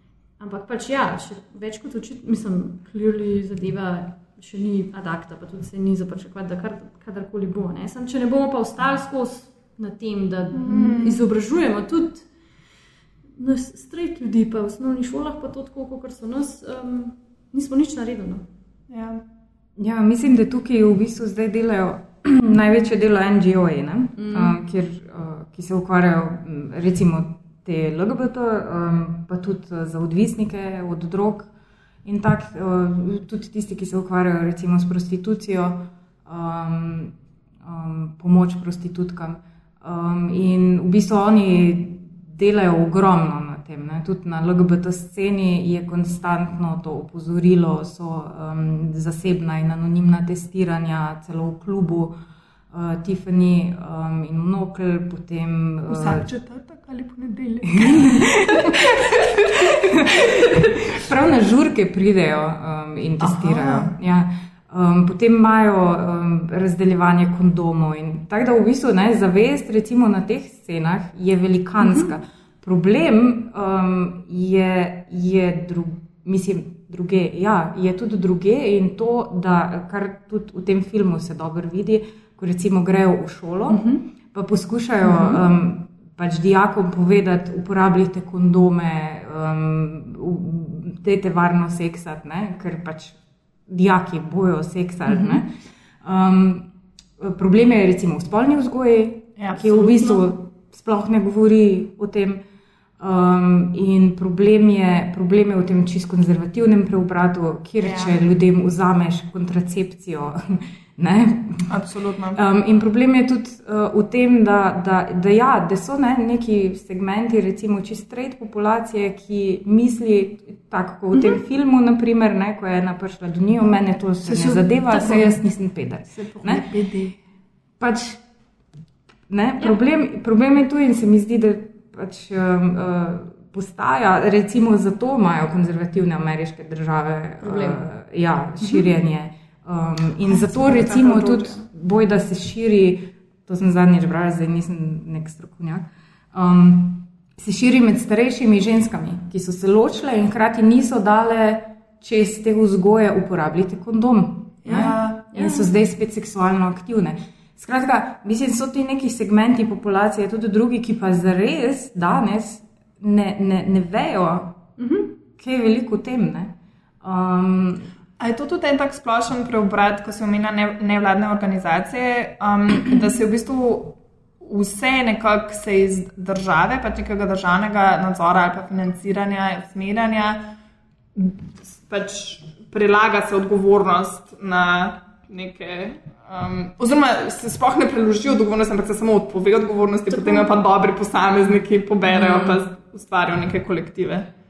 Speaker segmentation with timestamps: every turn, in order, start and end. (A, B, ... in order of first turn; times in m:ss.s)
0:00.4-0:12.3 A
0:10.5-0:11.2 B
0:13.4-0:18.5 A
0:18.9-0:19.2 B
0:19.8-0:31.5 C
0:24.2-0:24.6 A
0:32.0-0:52.2 C
0:52.7-0:56.3 C
0:55.9-0:59.1 B
0:57.6-0:58.9 C
0:59.5-1:33.2 C
0:59.7-1:00.4 B
1:03.2-1:03.9 B
1:11.8-1:12.2 A
1:23.7-1:24.0 A
1:25.0-1:25.4 A
1:33.7-1:36.7 C
1:35.1-1:35.4 A
1:37.2-1:42.4 C
1:39.4-1:39.9 B
1:39.7-1:40.2 A
1:43.0-1:51.7 C
1:47.8-1:48.2 B
1:51.7-1:52.4 B
1:52.3-2:06.7 C
2:04.2-2:05.4 B
2:06.2-2:07.2 B
2:07.8-2:08.2 C
2:09.3-2:44.6 C
2:17.4-2:17.8 A
2:20.3-2:21.6 B
2:34.6-2:35.2 B
2:34.7-2:35.7 A
2:44.8-2:45.1 A
2:45.4-2:47.9 C
2:48.2-3:00.5 B
3:01.2-3:14.3 B
3:10.1-3:10.5 A
3:12.1-3:12.6 C